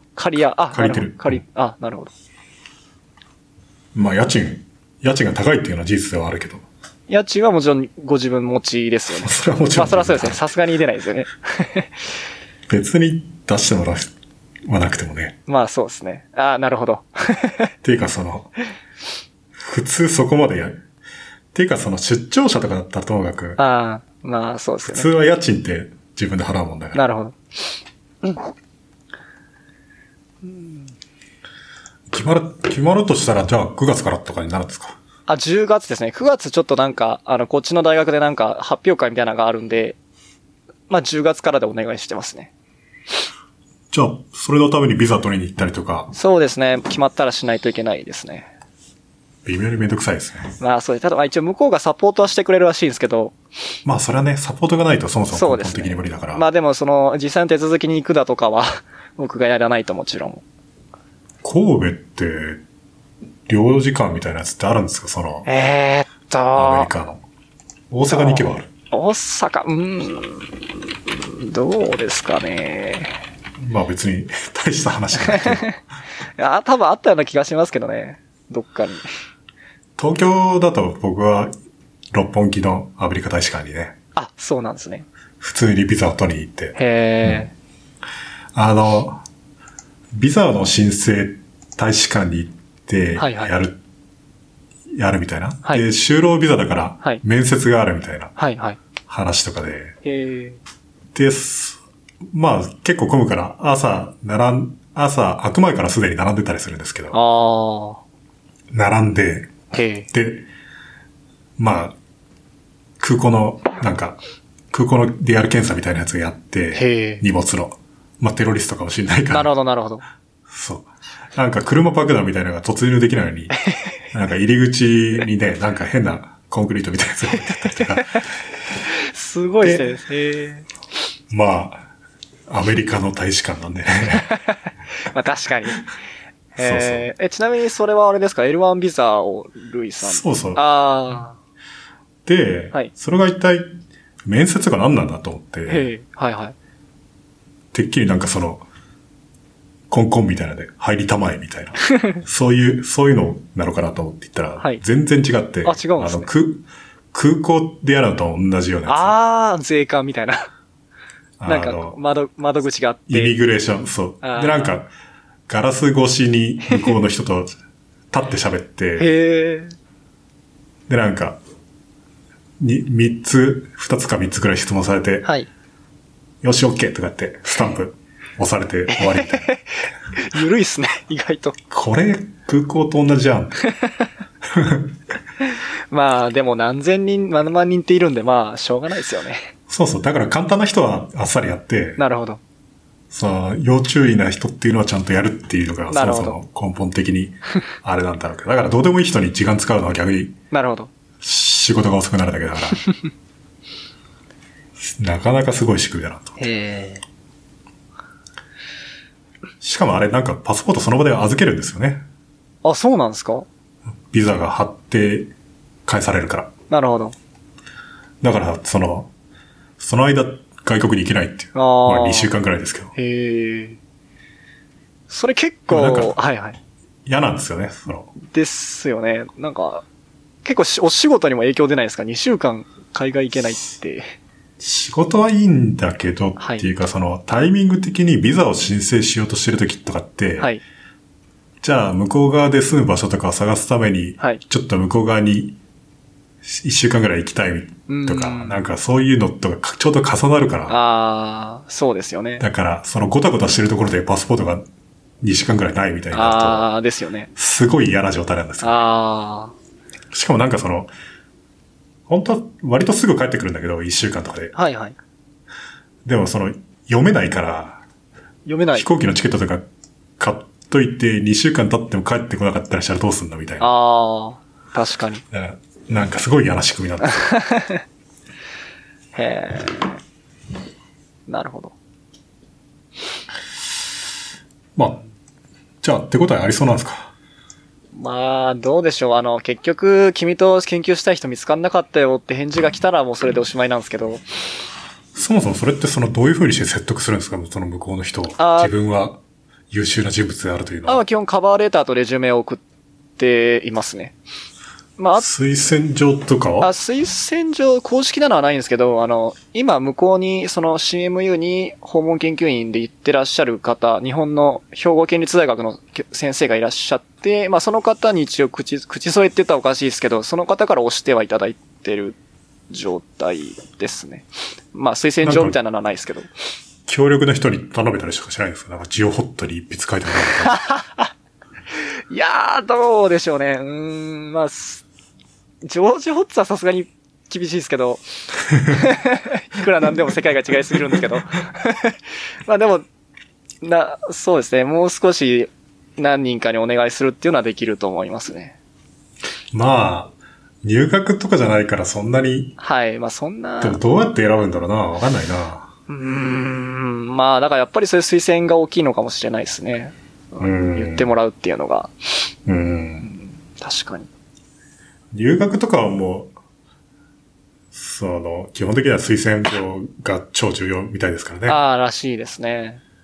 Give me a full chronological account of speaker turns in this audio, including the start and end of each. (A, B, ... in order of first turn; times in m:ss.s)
0:00.2-0:02.1 A
0:00.7-0:01.4 B
0:03.9-0:06.6 B
0:07.1-0:12.0 A
0:09.2-0:10.4 B
0:12.7-0:14.1 B
0:14.7-0:15.4 B
0:15.5-0:17.7 A
0:17.8-0:18.5 B
0:19.6-0:20.8 B
0:21.5-0:23.6 B
0:23.6-0:25.1 A
0:24.8-0:27.0 B
0:26.9-0:27.4 A
0:30.4-0:30.9 A
0:32.1-0:35.0 B
0:35.3-0:40.0 A
0:40.9-0:42.5 A
0:43.9-0:46.1 B
0:46.1-0:48.5 A
0:49.4-0:50.5 B
0:50.6-0:53.4 A
0:53.8-0:56.4 B
0:55.3-1:00.4 A
1:01.4-1:02.6 B
1:03.5-1:05.5 B
1:05.4-1:06.9 A
1:06.5-1:07.2 B
1:07.9-1:08.7 B
1:08.1-1:13.2 A
1:13.6-1:15.7 B
1:15.2-1:15.8 A
1:16.4-1:19.1 A
1:20.0-1:21.5 B
1:22.1-1:24.0 B
1:24.2-1:25.0 A
1:25.4-1:27.4 B
1:26.8-1:27.5 A
1:28.5-1:29.2 B
1:30.1-1:33.8 B
1:33.2-1:33.5 A
1:34.9-1:38.3 B
1:38.4-1:38.8 A
1:39.0-1:40.0 B
1:40.0-1:40.6 A
1:41.1-1:41.8 B
1:42.3-1:47.2 B
1:47.1-1:48.0 A
1:48.7-1:49.6 B
1:49.7-1:50.1 A
1:50.1-1:50.5 B
1:51.6-1:52.0 B
1:53.0-1:54.2 B
1:54.7-1:59.5 B
1:56.7-1:57.2 A
1:59.3-2:00.0 A
2:00.5-2:03.6 B
2:04.1-2:08.2 B
2:07.5-2:08.0 A
2:08.9-2:10.7 A
2:11.3-2:11.9 B
2:12.5-2:14.3 B
2:14.1-2:14.6 A
2:15.1-2:15.8 A
2:16.5-2:21.4 A
2:16.6-2:17.1 B
2:20.0-2:20.6 B
2:22.2-2:25.9 B
2:25.7-2:26.5 A
2:27.7-2:28.6 B
2:29.9-2:39.1 B
2:35.6-2:36.3 A
2:38.9-2:40.5 A
2:41.4-2:42.0 B
2:41.5-2:43.4 A
2:43.1-2:44.9 B
2:44.2-2:44.8 A
2:45.5-2:47.5 B
2:48.1-2:49.1 B
2:49.0-2:49.7 A
2:50.9-2:51.4 B
2:52.6-2:55.3 B
2:56.4-2:59.5 B
2:58.9-3:01.6 A
3:01.7-3:03.6 B
3:03.6-3:04.1 A
3:04.5-3:05.0 B
3:05.4-3:09.5 A
3:09.7-3:12.0 B
3:12.0-3:12.4 A
3:13.1-3:20.4 B
3:15.9-3:16.4 A
3:20.5-3:20.9 A
3:21.2-3:22.8 B
3:24.8-3:26.4 B
3:26.4-3:27.0 A
3:29.6-3:32.0 B
3:32.6-3:33.5 A
3:34.1-3:35.3 B
3:35.8-3:36.5 B
3:36.7-3:37.2 A
3:38.2-3:39.1 B
3:39.8-3:42.9 B
3:41.5-3:42.3 A
3:43.0-3:43.8 A
3:45.1-3:46.6 A
3:45.7-3:46.1 B
3:47.0-3:48.1 B
3:48.2-3:49.8 A
3:50.4-3:54.1 A
3:54.6-4:00.5 B
3:56.4-3:56.6 A
4:01.6-4:05.6 B
4:06.4-4:10.8 B
4:07.9-4:08.7 A
4:10.7-4:12.4 A
4:12.4-4:14.6 B
4:15.2-4:16.7 B
4:16.1-4:17.3 A
4:17.4-4:18.8 B
4:18.6-4:19.5 A
4:20.1-4:20.9 B
4:22.1-4:24.5 B
4:24.5-4:25.0 A
4:26.0-4:27.8 B
4:28.4-4:28.9 A
4:28.7-4:29.6 B
4:30.2-4:33.7 B
4:33.6-4:35.2 A
4:35.3-4:37.3 B
4:37.1-4:37.8 A
4:39.1-4:40.0 A
4:41.3-4:41.7 A
4:44.8-4:45.0 B
4:45.8-4:47.1 B
4:47.9-4:54.2 A
4:55.1-4:59.2 B
4:58.4-4:58.7 A
4:59.7-5:01.0 B
5:00.8-5:02.6 A
5:03.2-5:04.2 A
5:05.0-5:05.3 A
5:05.2-5:06.7 B
5:06.6-5:22.2 A
5:22.7-5:26.3 A
5:25.2-5:25.6 B
5:26.8-5:30.6 B
5:30.4-5:31.1 A
5:31.7-5:34.8 A
5:35.6-5:38.0 A
5:38.6-5:42.8 A
5:43.6-5:48.6 A
5:49.5-5:52.6 B
5:52.6-5:53.8 A
5:53.6-5:55.7 B
5:55.9-6:01.9 A
6:00.4-6:01.1 B
6:02.4-6:03.1 B
6:03.0-6:04.1 A
6:05.1-6:06.3 B
6:07.7-6:11.6 B
6:11.5-6:12.8 A